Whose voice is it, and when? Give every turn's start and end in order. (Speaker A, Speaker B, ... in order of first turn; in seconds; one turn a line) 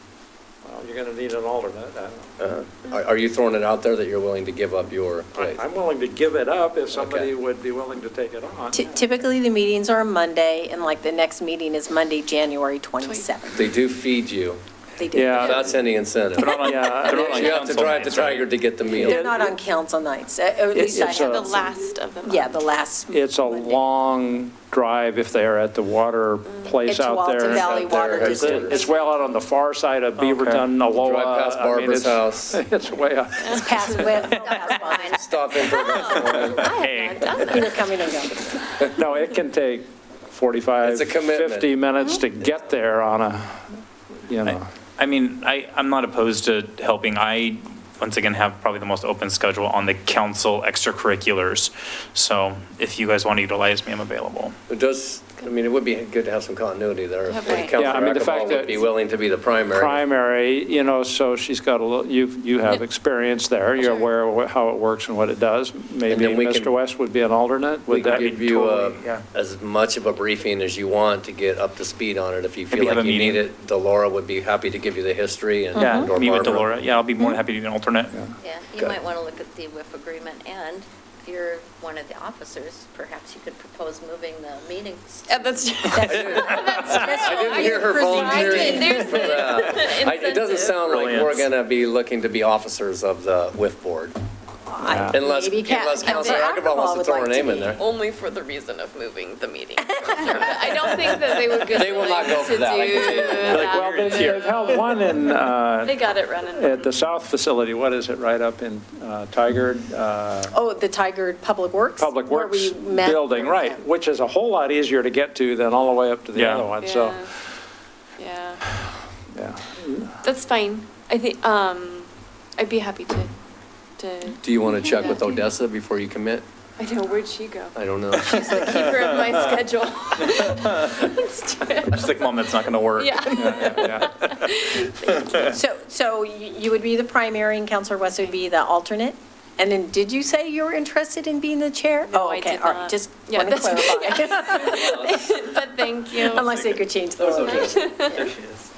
Speaker A: 0.6-2.4
Speaker B: 2.4-5.6
Speaker A: 5.3-8.8
Speaker B: 6.9-7.3
Speaker C: 8.7-13.7
Speaker B: 13.5-14.6
Speaker C: 15.0-15.8
Speaker A: 15.1-15.6
Speaker B: 15.3-19.3
Speaker D: 16.4-18.5
Speaker A: 16.7-17.6
Speaker C: 18.9-21.7
Speaker E: 19.0-19.5
Speaker A: 20.7-21.5
Speaker E: 21.1-22.5
Speaker C: 22.2-24.0
Speaker A: 23.1-34.3
Speaker C: 26.8-29.1
Speaker B: 27.4-28.8
Speaker D: 30.2-30.7
Speaker B: 30.9-32.6
Speaker E: 33.5-34.0
Speaker C: 33.5-35.2
Speaker F: 34.2-35.3
Speaker B: 35.1-36.8
Speaker E: 35.7-37.8
Speaker D: 36.6-37.7
Speaker C: 36.9-38.5
Speaker A: 38.8-43.6
Speaker B: 40.8-41.7
Speaker A: 44.3-44.6
Speaker D: 44.4-54.6
Speaker B: 54.7-60.0
Speaker E: 57.3-57.7
Speaker A: 57.7-58.9
Speaker A: 59.7-68.8
Speaker E: 63.8-64.1
Speaker B: 66.1-66.7
Speaker B: 67.9-76.7
Speaker D: 68.0-69.2
Speaker D: 72.7-73.4
Speaker D: 75.8-78.2
Speaker F: 78.4-86.9
Speaker E: 85.3-90.8
Speaker C: 85.9-89.4
Speaker D: 86.0-86.2
Speaker B: 86.0-94.1
Speaker D: 90.9-91.4
Speaker C: 94.7-97.8
Speaker A: 94.8-95.2
Speaker B: 95.1-97.8
Speaker E: 96.1-96.6
Speaker E: 97.8-105.1
Speaker C: 100.0-101.1
Speaker B: 101.7-103.8
Speaker A: 103.5-110.5
Speaker D: 103.5-104.8
Speaker E: 105.8-106.9
Speaker C: 110.5-113.8
Speaker A: 112.0-117.3
Speaker D: 116.3-116.7
Speaker E: 116.8-117.3
Speaker E: 118.2-118.6
Speaker A: 119.3-120.2
Speaker E: 120.2-123.3
Speaker E: 124.0-125.4
Speaker B: 124.4-126.4
Speaker E: 126.8-132.3
Speaker B: 127.7-128.9
Speaker D: 131.8-134.4
Speaker E: 132.9-135.2
Speaker A: 133.4-134.1
Speaker C: 135.3-145.4
Speaker E: 142.1-146.7
Speaker B: 144.6-145.3
Speaker C: 146.1-147.8
Speaker B: 147.2-148.5
Speaker E: 147.4-148.2
Speaker F: 148.1-148.5